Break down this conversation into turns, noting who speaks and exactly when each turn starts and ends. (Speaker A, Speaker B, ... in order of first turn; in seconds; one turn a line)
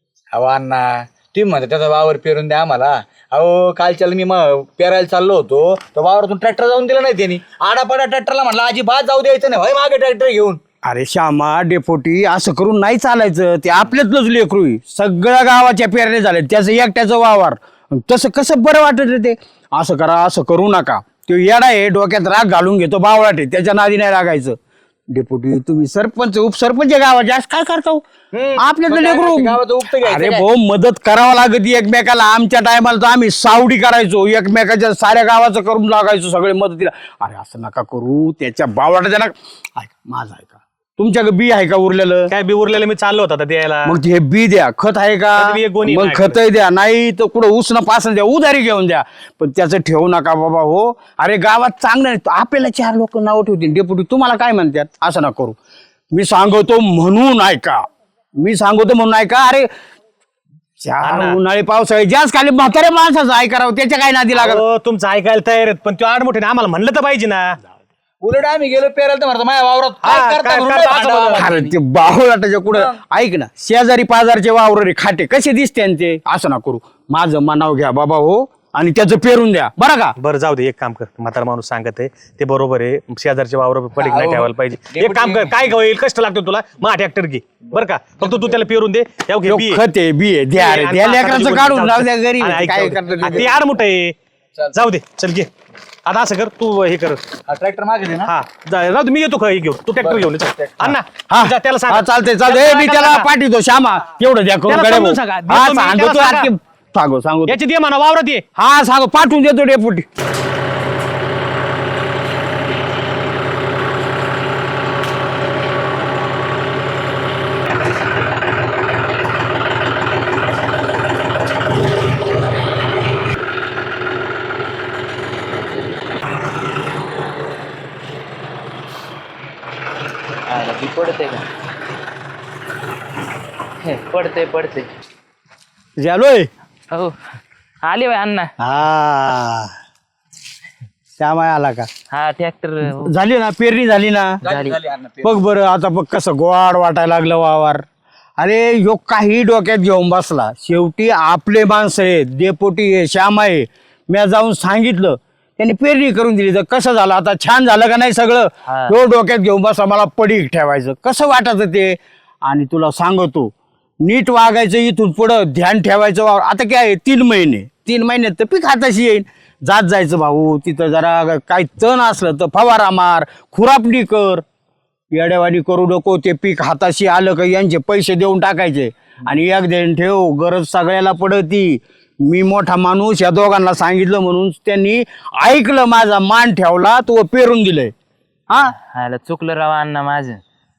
Speaker A: 0.3-10.6
Speaker B: 10.8-24.6
Speaker B: 25.1-28.0
Speaker A: 28.3-30.5
Speaker B: 28.6-42.3
Speaker C: 42.3-44.0
Speaker B: 43.9-55.6
Speaker C: 45.4-46.4
Speaker B: 56.1-57.9
Speaker B: 58.4-59.7
Speaker B: 60.8-64.6
Speaker C: 61.0-61.4
Speaker C: 64.3-67.6
Speaker A: 68.2-71.7
Speaker C: 70.0-71.5
Speaker B: 71.3-80.2
Speaker C: 80.2-89.8
Speaker A: 84.0-85.7
Speaker B: 89.5-93.6
Speaker C: 90.5-94.2
Speaker C: 94.7-95.5
Speaker C: 96.0-97.2
Speaker A: 97.5-98.3
Speaker C: 98.3-103.3
Speaker A: 100.0-100.4
Speaker B: 100.8-107.6
Speaker C: 104.7-106.5
Speaker C: 107.5-108.5
Speaker B: 108.6-110.1
Speaker D: 130.5-131.5
Speaker D: 133.8-134.9
Speaker B: 136.0-136.5
Speaker D: 136.9-137.2
Speaker D: 137.8-138.5
Speaker B: 138.6-139.7
Speaker B: 141.2-141.9
Speaker D: 142.1-143.1
Speaker B: 143.0-144.4
Speaker A: 144.4-145.3
Speaker D: 144.4-144.8
Speaker B: 145.2-147.8
Speaker B: 148.4-174.4
Speaker D: 158.7-158.9
Speaker B: 175.1-187.9
Speaker D: 188.6-190.4